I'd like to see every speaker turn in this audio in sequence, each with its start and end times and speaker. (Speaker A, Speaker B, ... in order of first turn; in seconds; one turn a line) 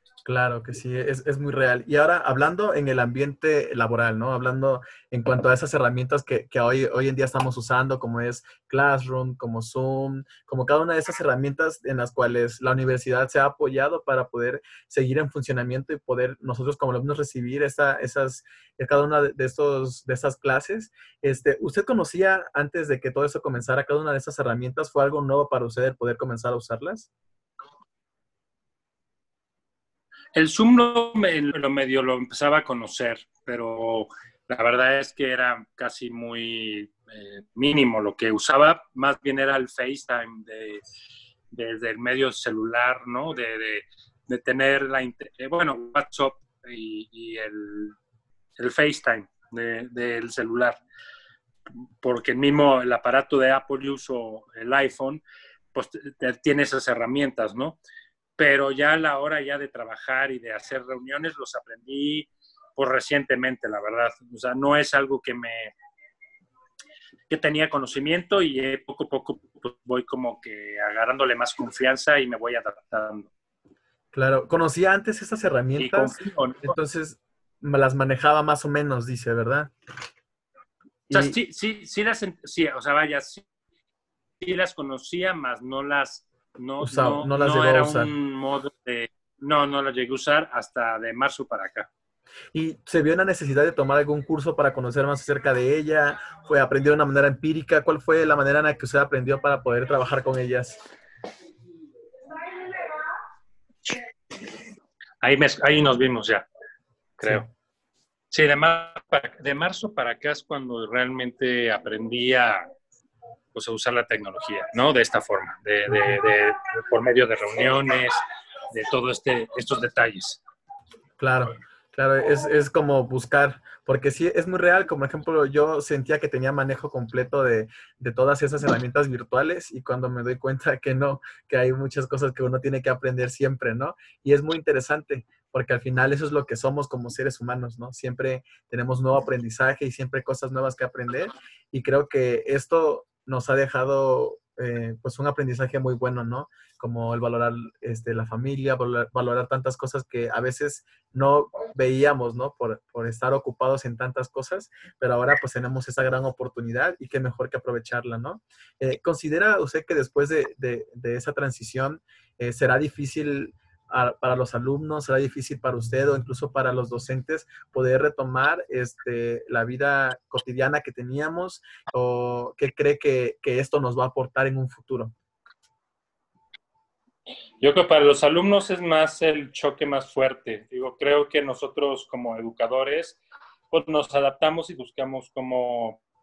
Speaker A: 0.2-27.1
Speaker B: 30.3-40.8
Speaker B: 41.5-48.0
Speaker B: 48.6-50.8
Speaker B: 52.0-55.2
Speaker B: 55.7-57.8
Speaker B: 58.4-65.7
Speaker B: 67.3-73.3
Speaker A: 74.1-79.7
Speaker B: 75.8-76.7
Speaker B: 81.1-83.4
Speaker B: 84.4-91.9
Speaker A: 86.8-88.1
Speaker A: 92.5-100.8
Speaker B: 105.2-106.5
Speaker B: 107.2-107.5
Speaker B: 108.3-112.6
Speaker B: 113.5-118.2
Speaker A: 115.9-116.2
Speaker B: 118.7-120.4
Speaker A: 121.2-175.1
Speaker B: 177.6-183.2
Speaker B: 183.7-186.0